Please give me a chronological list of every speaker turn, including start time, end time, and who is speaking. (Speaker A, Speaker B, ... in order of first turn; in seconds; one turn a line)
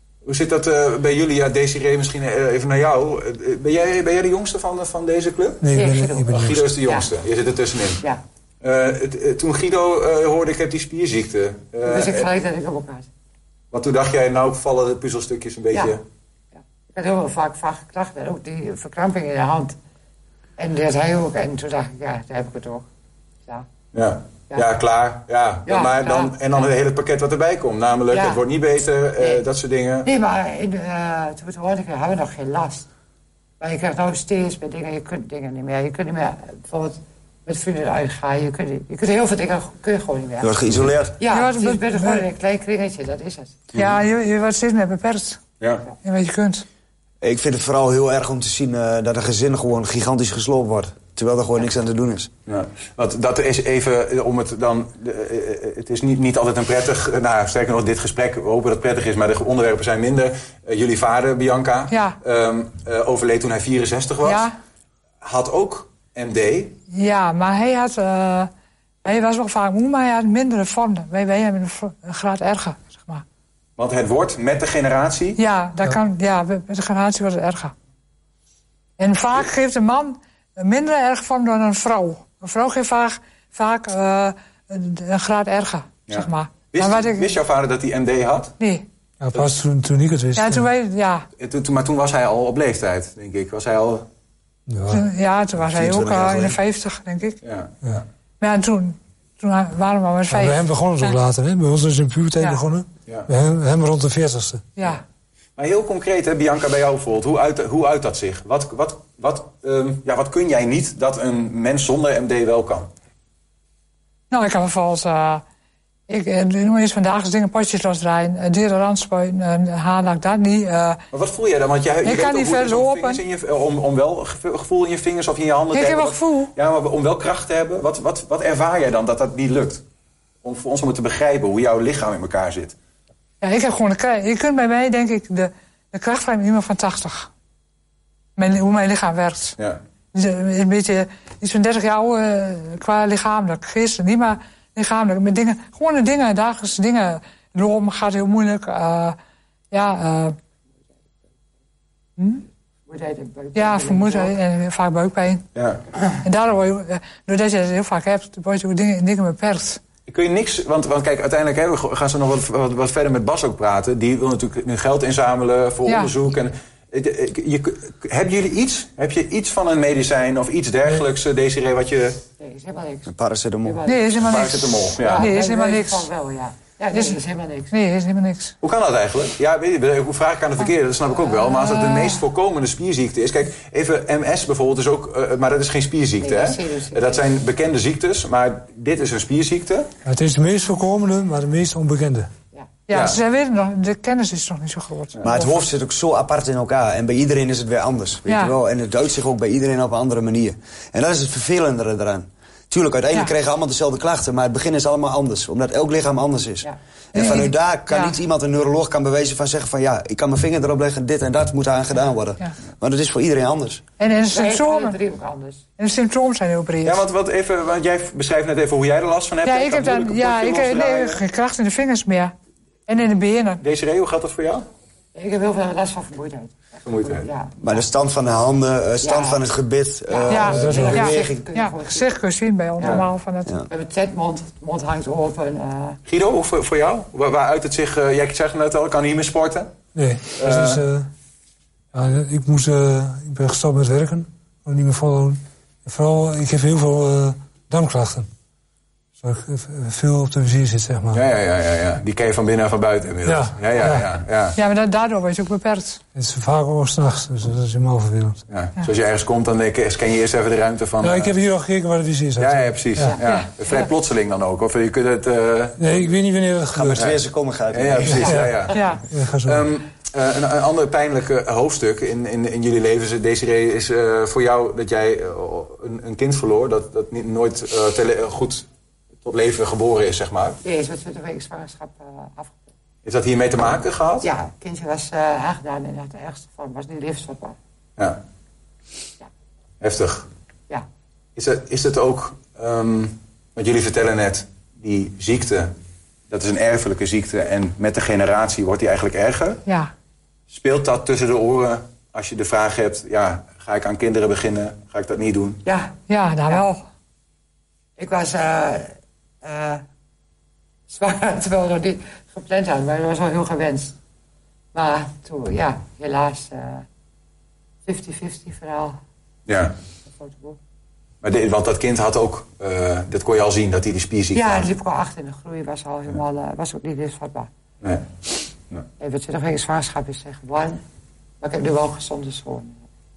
Speaker A: 0.2-5.7
Speaker B: 5.6-6.7
Speaker C: 5.7-7.1
Speaker A: 6.3-8.1
Speaker A: 8.6-12.3
Speaker C: 11.8-13.1
Speaker A: 13.7-16.0
Speaker C: 16.9-19.8
Speaker C: 20.6-22.9
Speaker A: 23.9-30.1
Speaker C: 25.7-26.6
Speaker C: 28.1-28.4
Speaker C: 30.1-32.9
Speaker C: 33.6-40.5
Speaker D: 40.4-41.2
Speaker C: 41.2-43.8
Speaker E: 41.3-42.3
Speaker E: 43.7-45.4
Speaker A: 45.6-45.9
Speaker E: 46.0-46.6
Speaker D: 47.2-52.3
Speaker A: 52.5-64.5
Speaker E: 61.9-62.2
Speaker E: 64.2-64.5
Speaker A: 65.2-66.8
Speaker E: 66.9-68.5
Speaker E: 69.0-73.2
Speaker A: 73.8-75.4
Speaker E: 75.4-77.7
Speaker E: 79.0-87.3
Speaker A: 86.1-88.5
Speaker E: 88.6-88.9
Speaker B: 89.2-90.7
Speaker E: 90.3-91.3
Speaker A: 91.4-94.1
Speaker B: 94.7-95.0
Speaker E: 94.9-97.4
Speaker D: 95.7-96.6
Speaker A: 97.4-98.0
Speaker E: 98.4-101.2
Speaker B: 100.3-104.7
Speaker E: 104.8-105.0
Speaker A: 105.6-112.9
Speaker E: 114.3-115.4
Speaker E: 116.1-121.0
Speaker A: 121.1-129.8
Speaker E: 122.0-123.2
Speaker E: 125.7-126.5
Speaker A: 130.4-132.8
Speaker E: 133.4-137.3
Speaker E: 138.4-139.6
Speaker E: 140.1-149.2
Speaker E: 149.7-150.3
Speaker E: 152.2-152.4
Speaker C: 152.9-154.4
Speaker E: 153.6-155.4
Speaker A: 155.6-155.8
Speaker E: 156.2-159.8
Speaker A: 160.1-172.2
Speaker E: 165.9-166.2
Speaker C: 172.4-173.1
Speaker D: 173.1-173.8
Speaker C: 173.7-174.4
Speaker E: 173.9-176.1
Speaker A: 174.2-175.3
Speaker C: 174.9-177.7
Speaker E: 176.9-177.2
Speaker E: 177.7-178.6
Speaker A: 178.6-189.9
Speaker E: 181.5-182.2
Speaker C: 186.2-187.2
Speaker B: 190.1-192.3
Speaker C: 192.5-192.8
Speaker E: 192.9-195.5
Speaker A: 192.9-193.2
Speaker D: 195.2-213.8
Speaker E: 198.3-198.5
Speaker E: 207.1-208.2
Speaker E: 214.0-215.0
Speaker C: 214.3-215.7
Speaker E: 215.8-217.1
Speaker A: 216.8-221.2
Speaker E: 219.4-222.3
Speaker E: 222.9-223.6
Speaker A: 223.6-224.6
Speaker C: 225.2-227.7
Speaker A: 226.9-227.3
Speaker D: 227.6-231.4
Speaker C: 229.0-229.4
Speaker C: 230.1-232.2
Speaker E: 230.3-233.6
Speaker B: 230.4-231.0
Speaker C: 233.7-236.0
Speaker A: 236.1-239.7
Speaker B: 239.9-241.1
Speaker A: 240.3-240.8
Speaker B: 241.9-248.3
Speaker B: 249.2-251.2
Speaker A: 251.1-254.6
Speaker B: 253.3-254.1
Speaker E: 254.6-256.0
Speaker B: 256.1-258.4
Speaker A: 258.5-261.3
Speaker B: 261.0-263.2
Speaker A: 262.4-266.1
Speaker C: 263.0-263.9
Speaker B: 265.8-267.1
Speaker D: 266.7-268.3
Speaker A: 267.7-268.9
Speaker B: 268.1-269.6
Speaker C: 268.2-268.9
Speaker A: 269.4-278.7
Speaker A: 279.2-280.6
Speaker C: 280.6-282.6
Speaker A: 283.1-284.3
Speaker C: 284.2-287.6
Speaker A: 289.8-290.3
Speaker A: 291.4-295.7
Speaker A: 296.3-299.6
Speaker E: 299.7-299.9
Speaker A: 300.5-305.6
Speaker C: 305.6-306.6
Speaker E: 306.1-306.8
Speaker C: 308.0-309.8
Speaker C: 310.9-314.0
Speaker C: 314.7-316.9
Speaker C: 317.9-319.0
Speaker A: 319.5-319.8
Speaker C: 320.2-320.6
Speaker A: 321.2-324.7
Speaker C: 324.3-327.5
Speaker C: 329.0-330.8
Speaker C: 331.4-332.8